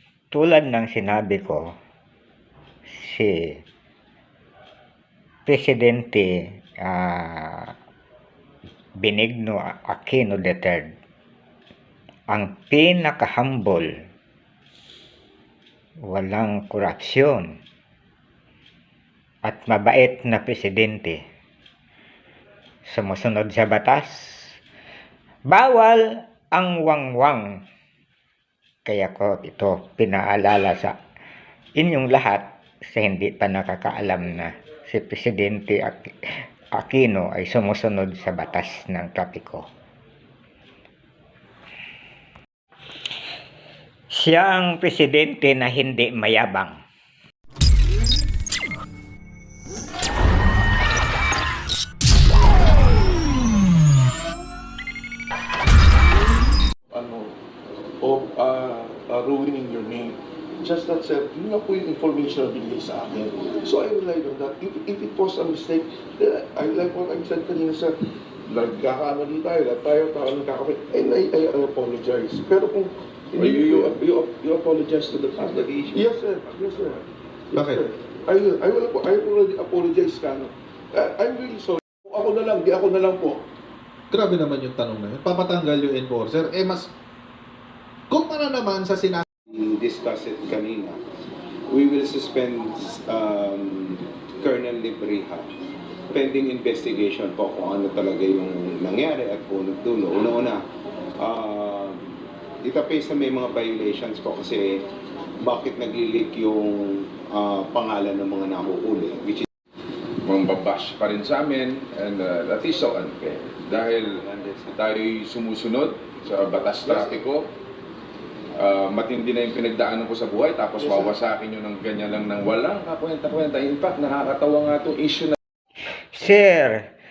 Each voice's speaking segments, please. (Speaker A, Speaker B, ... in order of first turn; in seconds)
Speaker A: 0.3-1.6, 3.0-3.3, 5.5-6.3, 6.8-7.7, 9.0-10.9, 12.3-13.9, 16.1-17.5, 19.5-21.2, 22.9-24.1, 25.5-27.4, 28.9-30.9, 31.8-36.1, 36.8-39.6, 44.1-46.7, 126.2-126.8
Speaker B: 56.9-57.3, 58.0-68.0, 68.5-83.4
Speaker C: 73.4-74.0, 110.2-114.2, 114.7-117.5, 118.6-125.4
Speaker D: 75.4-77.0, 89.5-91.0, 91.7-95.5, 96.1-100.6, 101.2-102.0, 102.6-104.8, 105.4-109.5, 114.0-114.8
Speaker E: 84.1-86.9, 88.1-89.2